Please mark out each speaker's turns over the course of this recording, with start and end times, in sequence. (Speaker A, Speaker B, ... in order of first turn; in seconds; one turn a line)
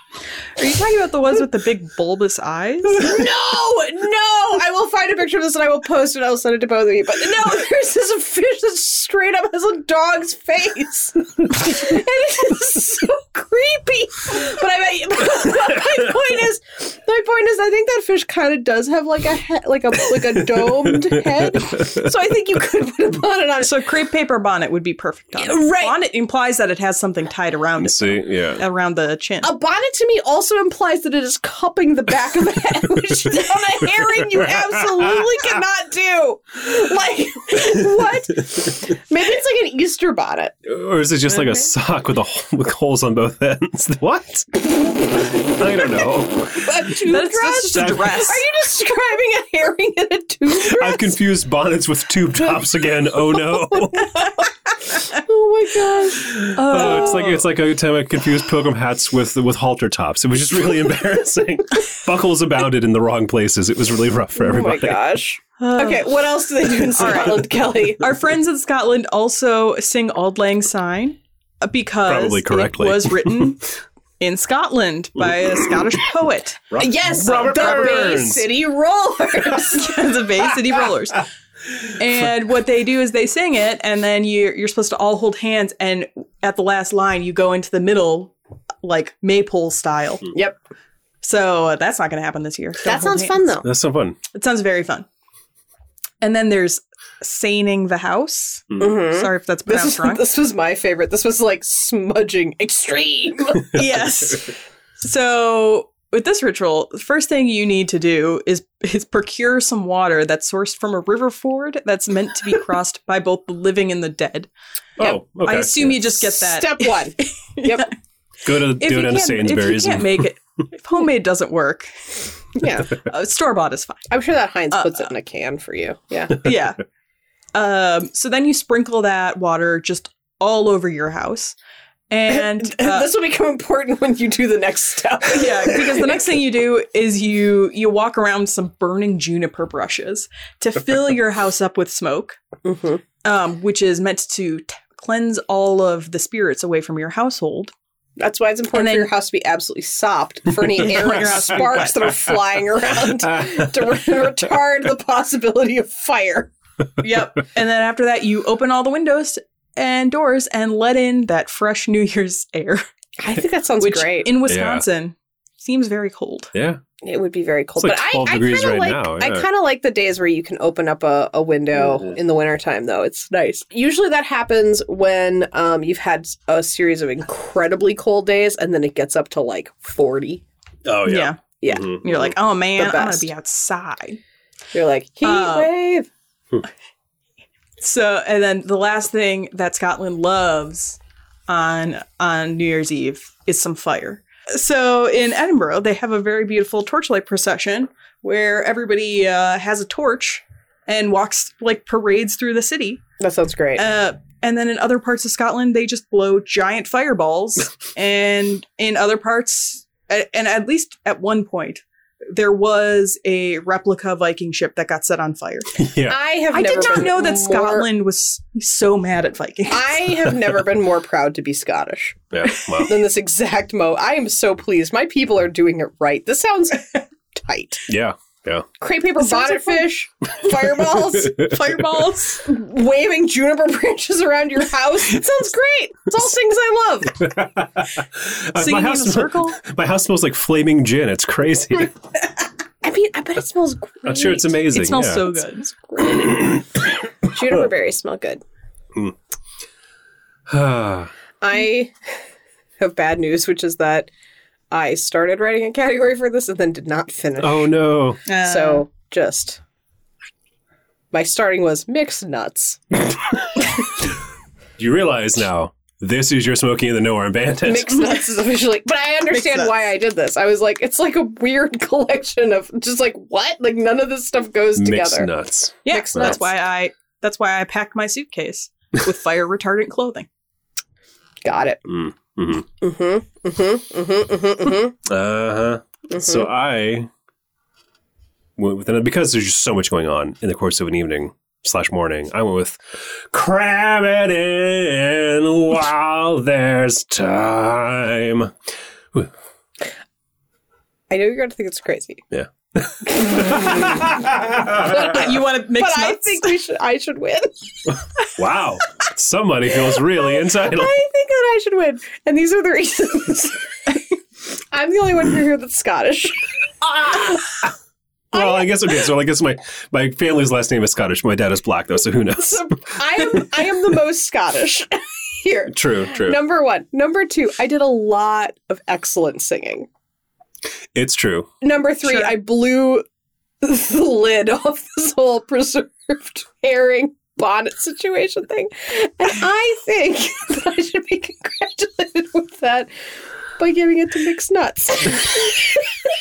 Speaker A: 0.6-3.1
Speaker B: 2.9-23.8
Speaker C: 20.6-22.0
Speaker A: 23.6-29.5
Speaker B: 25.4-26.0
Speaker C: 27.8-28.6
Speaker B: 29.4-40.5
Speaker C: 33.8-35.4
Speaker C: 40.6-46.9
Speaker B: 46.6-51.1
Speaker A: 47.0-48.4
Speaker C: 47.7-48.2
Speaker C: 50.5-54.2
Speaker B: 53.9-54.4
Speaker B: 54.9-57.0
Speaker C: 56.2-65.0
Speaker A: 56.5-57.5
Speaker B: 64.4-68.1
Speaker A: 65.6-66.1
Speaker A: 66.7-78.3
Speaker C: 72.0-73.6
Speaker C: 75.2-75.9
Speaker C: 76.7-78.4
Speaker B: 76.8-80.0
Speaker A: 79.7-81.3
Speaker A: 82.0-90.3
Speaker B: 90.3-90.6
Speaker A: 91.2-93.5
Speaker B: 92.8-93.7
Speaker C: 93.6-94.2
Speaker A: 94.3-95.1
Speaker A: 96.2-100.2
Speaker B: 98.8-103.8
Speaker A: 103.7-114.5
Speaker C: 115.0-116.3
Speaker A: 115.4-117.9
Speaker B: 116.4-117.9
Speaker C: 118.4-120.3
Speaker A: 118.7-121.9
Speaker B: 122.6-123.0
Speaker A: 122.9-124.1
Speaker B: 124.1-126.5
Speaker A: 124.7-125.1
Speaker A: 126.4-126.8
Speaker A: 127.5-131.6
Speaker A: 132.1-133.1
Speaker B: 132.3-136.3
Speaker A: 135.3-142.4
Speaker B: 142.6-143.0
Speaker A: 143.2-147.7
Speaker B: 148.2-156.5
Speaker A: 148.7-149.1
Speaker A: 150.7-152.2
Speaker A: 157.0-162.8
Speaker B: 163.2-164.3
Speaker A: 163.8-166.5
Speaker C: 164.4-164.8
Speaker C: 166.5-166.8
Speaker B: 167.0-180.4
Speaker C: 167.8-169.4
Speaker C: 180.8-182.2
Speaker A: 181.1-184.2
Speaker B: 181.6-182.2
Speaker B: 182.8-183.3
Speaker B: 184.7-186.1
Speaker A: 185.2-185.7
Speaker A: 187.8-203.0
Speaker B: 203.2-203.8
Speaker A: 203.8-215.7
Speaker C: 215.8-216.2
Speaker B: 216.1-217.9
Speaker A: 216.5-220.0
Speaker B: 219.7-222.2
Speaker C: 222.3-223.0
Speaker B: 222.8-227.8
Speaker C: 227.9-228.7
Speaker B: 228.8-231.5
Speaker A: 229.2-229.9
Speaker C: 231.2-231.6
Speaker A: 231.3-232.4
Speaker B: 232.4-237.3
Speaker C: 237.1-241.9
Speaker A: 238.6-239.6
Speaker B: 242.8-244.6
Speaker C: 244.1-245.4
Speaker A: 244.7-245.7
Speaker B: 245.6-246.6
Speaker C: 246.0-246.5
Speaker B: 247.2-248.4
Speaker C: 250.5-251.1
Speaker B: 251.4-251.9
Speaker B: 252.8-254.1
Speaker B: 254.7-257.7
Speaker C: 257.4-258.2
Speaker B: 258.2-259.6
Speaker A: 258.2-258.8
Speaker B: 261.1-263.0
Speaker C: 264.8-268.1
Speaker B: 267.6-275.3
Speaker A: 269.3-269.8
Speaker C: 274.7-276.4
Speaker A: 275.9-280.3
Speaker B: 275.9-276.4
Speaker B: 281.4-281.9
Speaker C: 281.9-282.6
Speaker B: 282.8-284.9
Speaker C: 285.1-287.1
Speaker B: 286.1-286.5
Speaker C: 288.6-298.6
Speaker B: 301.1-302.2
Speaker C: 302.3-304.9
Speaker B: 303.2-304.1
Speaker B: 304.7-307.6
Speaker A: 304.8-306.6
Speaker C: 308.4-310.9
Speaker B: 309.9-314.0
Speaker B: 314.7-317.5
Speaker B: 318.3-318.7
Speaker C: 318.3-322.6
Speaker B: 322.4-329.9
Speaker C: 325.7-326.4
Speaker C: 330.9-331.5
Speaker B: 331.6-333.1
Speaker A: 332.1-332.3
Speaker B: 333.6-342.9
Speaker B: 343.6-345.8